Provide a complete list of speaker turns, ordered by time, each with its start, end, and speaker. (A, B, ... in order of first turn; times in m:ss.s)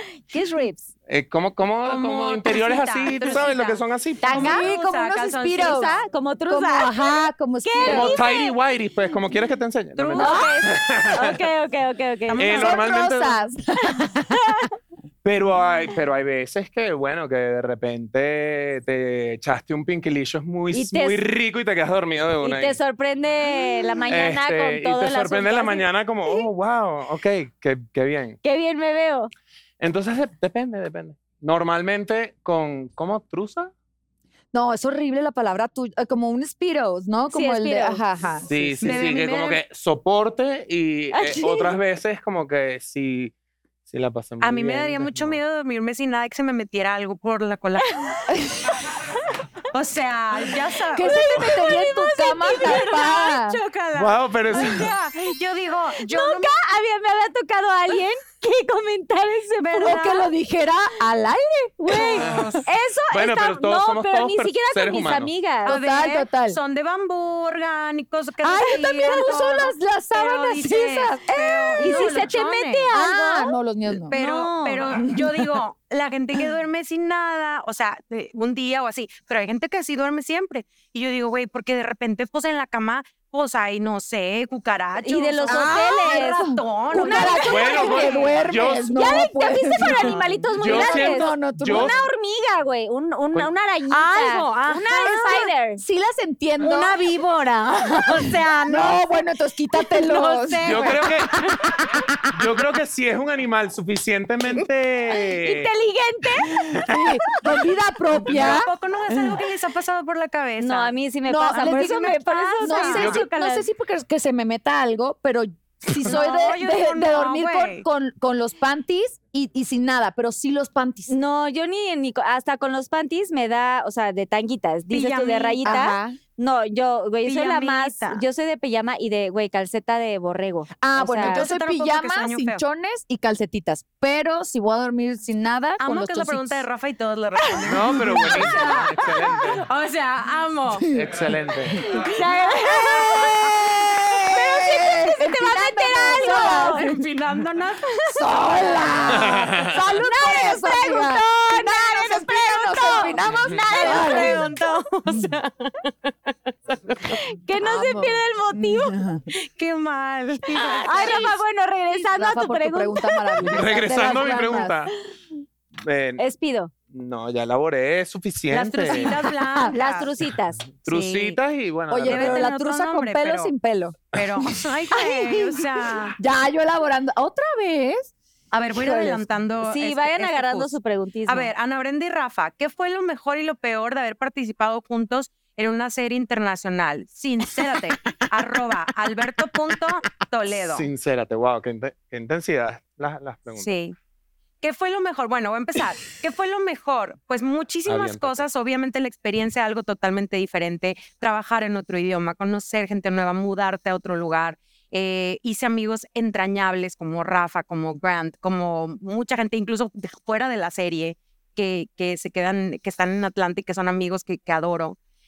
0:00.3-0:00.9 A
0:01.1-0:04.5 B
0:01.8-0:05.9 C
0:04.2-0:05.9 D
0:05.6-0:08.6 A
0:06.5-0:08.2 D
0:07.8-0:11.4 B
0:10.0-0:10.5 C
0:10.1-0:12.7 A
0:12.3-0:12.9 C
0:12.4-0:13.4 B
0:12.6-0:14.6 D
0:14.3-0:14.7 A
0:15.2-0:22.8 B
0:20.7-0:21.2 A
0:22.4-0:26.4 A
0:24.1-0:28.4 B
0:28.4-0:29.3 A
0:29.8-0:33.7 B
0:34.5-0:39.2 D
0:37.3-0:38.0 A
0:38.5-0:43.3 B
0:38.8-0:39.6 C
0:41.1-0:41.7 A
0:43.9-0:45.4 B
0:44.4-0:48.2 C
0:48.3-0:48.7 D
0:49.7-0:56.5 C
0:50.9-0:53.6 D
0:51.0-0:52.8 A
0:53.9-0:54.9 B
0:56.0-1:00.1 A
0:59.6-1:00.3 C
0:59.8-1:02.4 D
1:01.8-1:05.8 A
1:01.9-1:02.7 C
1:02.2-1:05.3 B
1:05.6-1:06.6 D
1:05.6-1:12.9 C
1:08.4-1:12.1 D
1:11.7-1:13.6 A
1:12.9-1:14.1 D
1:14.1-1:28.3 C
1:14.1-1:15.0 A
1:15.0-1:15.6 D
1:25.0-1:26.4 A
1:25.5-1:32.0 D
1:26.9-1:28.3 A
1:27.5-1:28.9 B
1:28.9-1:35.8 A
1:30.6-1:32.0 B
1:33.9-1:35.5 C
1:35.7-1:37.0 D
1:36.6-1:39.0 C
1:38.0-1:42.3 D
1:40.0-1:41.0 C
1:40.6-1:41.4 B
1:42.3-1:45.7 B
1:45.3-1:46.5 A
1:46.4-1:49.4 D
1:46.5-1:47.0 B
1:48.1-1:50.9 C
1:50.6-1:53.7 A
1:51.3-2:01.1 D
1:51.5-1:53.2 C
1:56.0-1:57.8 C
2:01.1-2:11.4 A
2:04.9-2:05.8 C
2:05.6-2:06.2 D
2:07.2-2:08.2 C
2:10.8-2:16.6 D
2:11.2-2:12.6 C
2:15.8-2:21.0 C
2:17.6-2:18.9 D
2:17.7-2:19.6 B
2:20.9-2:21.8 B
2:21.7-2:22.0 D
2:21.9-2:23.8 A
2:22.0-2:23.6 C
2:22.9-2:27.0 D
2:24.3-2:24.7 A
2:24.3-2:28.3 C
2:25.2-2:26.9 A
2:28.1-2:34.5 D
2:29.1-2:29.8 B
2:29.9-2:34.6 A
2:31.5-2:35.9 C
2:37.1-2:39.0 A
2:37.6-2:39.3 D
2:39.3-2:41.4 C
2:40.8-2:43.4 A
2:42.0-2:44.8 D
2:43.5-2:44.9 B
2:45.8-2:46.2 B
2:46.2-2:46.7 A
2:46.9-2:49.1 B
2:48.5-2:50.1 C
2:48.9-2:49.7 D
2:49.6-2:50.6 A
2:50.6-2:52.4 B
2:50.9-2:51.4 C
2:51.9-2:54.0 D
2:52.0-2:53.5 C
2:54.1-2:56.2 C
2:54.9-2:58.1 D
2:58.5-3:00.7 C
2:58.7-2:59.2 D
2:59.6-3:01.5 A
3:01.3-3:10.9 C
3:10.6-3:13.7 B
3:13.6-3:14.0 C
3:14.6-3:35.0 C
3:17.9-3:18.4 B